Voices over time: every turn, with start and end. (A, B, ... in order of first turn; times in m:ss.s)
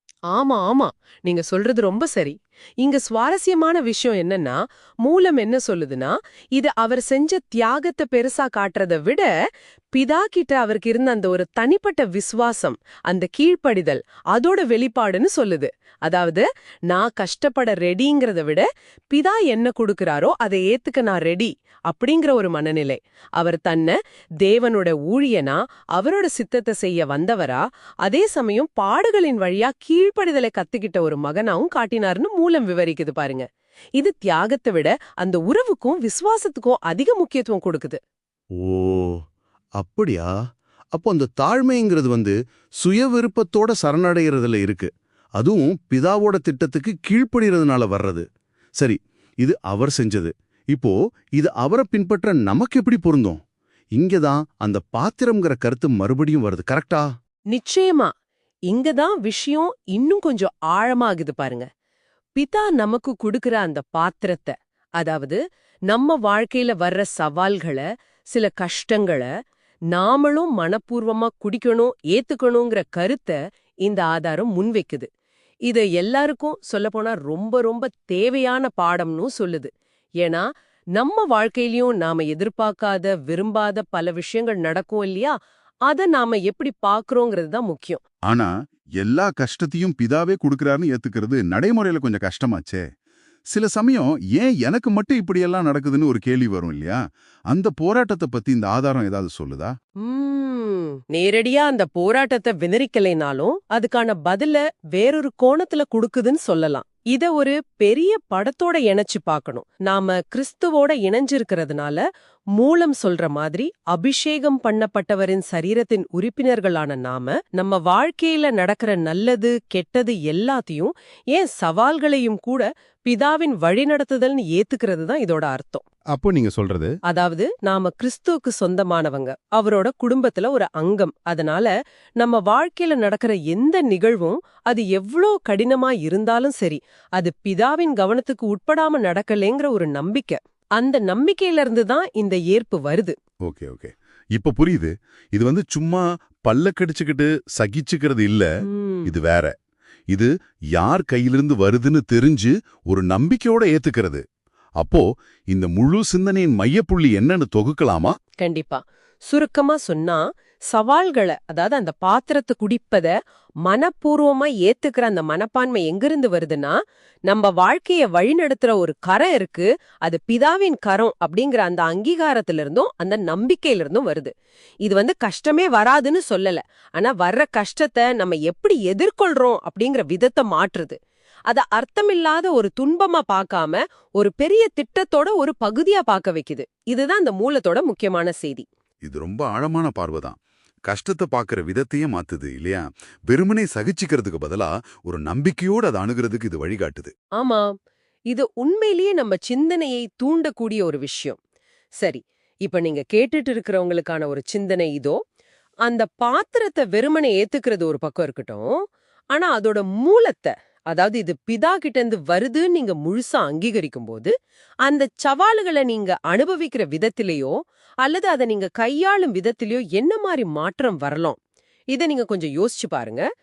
0:00.3-0:09.3 A
0:09.9-0:33.5 A
0:34.0-0:38.0 A
0:38.6-0:39.2 B
0:39.8-0:40.3 B
0:40.9-0:48.3 B
0:48.8-0:53.4 B
0:54.0-0:57.1 B
0:57.5-0:58.1 A
0:58.7-1:01.7 A
1:02.4-1:05.4 A
1:05.9-1:09.3 A
1:09.9-1:15.1 A
1:15.7-1:19.7 A
1:21.0-1:25.3 A
1:25.9-1:28.0 A
1:28.3-1:32.9 C
1:33.5-1:37.0 C
1:37.5-1:39.8 C
1:40.0-1:52.0 A
1:52.6-2:05.8 A
2:06.1-2:06.9 C
2:07.1-2:23.1 A
2:23.4-2:28.5 C
2:28.6-2:29.1 A
2:29.1-2:29.5 C
2:30.1-2:34.2 C
2:34.8-2:38.2 C
2:38.4-2:43.1 A
2:43.7-2:54.3 A
2:54.8-3:01.0 A
3:01.5-3:08.6 A
3:09.0-3:17.1 C
3:17.4-3:17.7 A
3:18.3-3:21.4 A
3:22.0-3:25.2 A
3:25.9-3:28.7 A
3:29.3-3:34.3 A
3:34.8-3:41.4 A
3:41.9-3:43.2 A